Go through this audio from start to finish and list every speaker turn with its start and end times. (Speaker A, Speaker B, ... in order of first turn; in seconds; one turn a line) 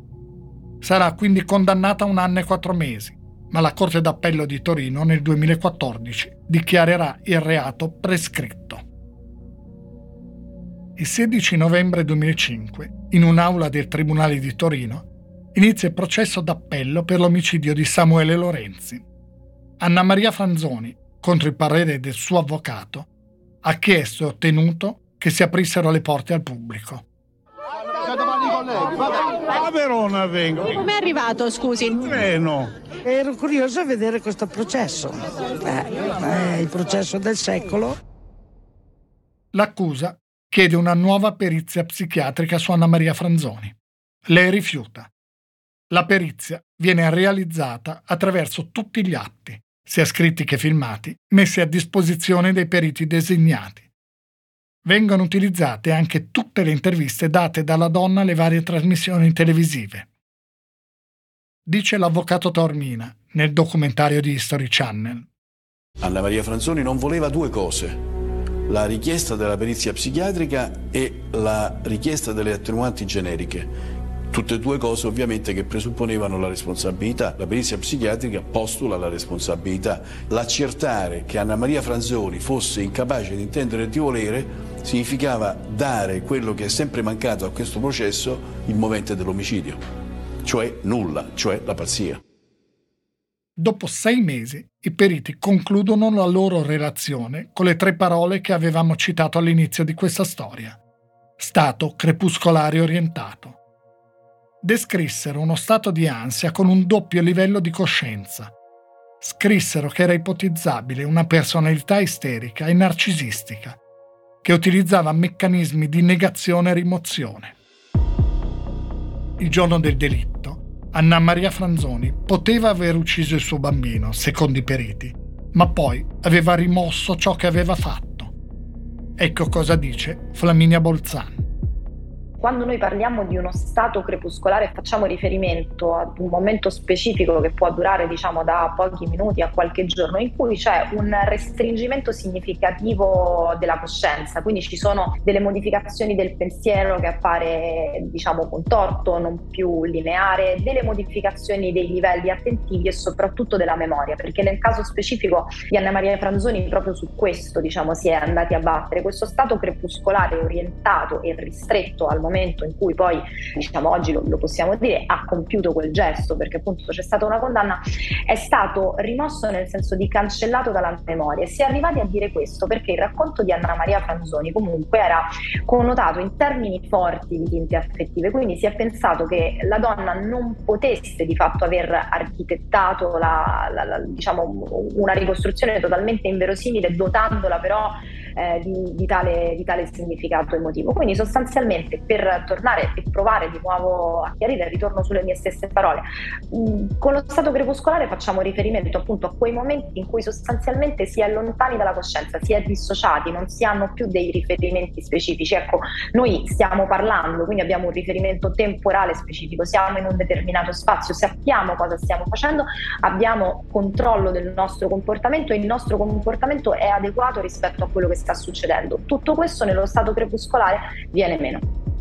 Speaker A: 0.8-8.8
Speaker A: 11.0-19.0
Speaker A: 19.8-23.1
Speaker A: 23.6-27.1
Speaker B: 29.5-30.7
Speaker C: 30.8-31.9
Speaker B: 31.9-32.7
Speaker C: 33.0-38.0
Speaker A: 39.5-43.8
Speaker A: 44.3-45.1
Speaker A: 45.9-53.9
Speaker A: 54.9-60.1
Speaker A: 61.7-65.3
Speaker D: 66.0-68.0
Speaker D: 68.7-73.7
Speaker D: 74.3-89.8
Speaker D: 90.4-92.2
Speaker A: 93.6-100.8
Speaker A: 101.4-103.6
Speaker A: 104.6-108.5
Speaker A: 109.2-113.8
Speaker A: 114.4-117.6
Speaker A: 119.4-128.3
Speaker A: 129.2-131.5
Speaker E: 132.4-221.7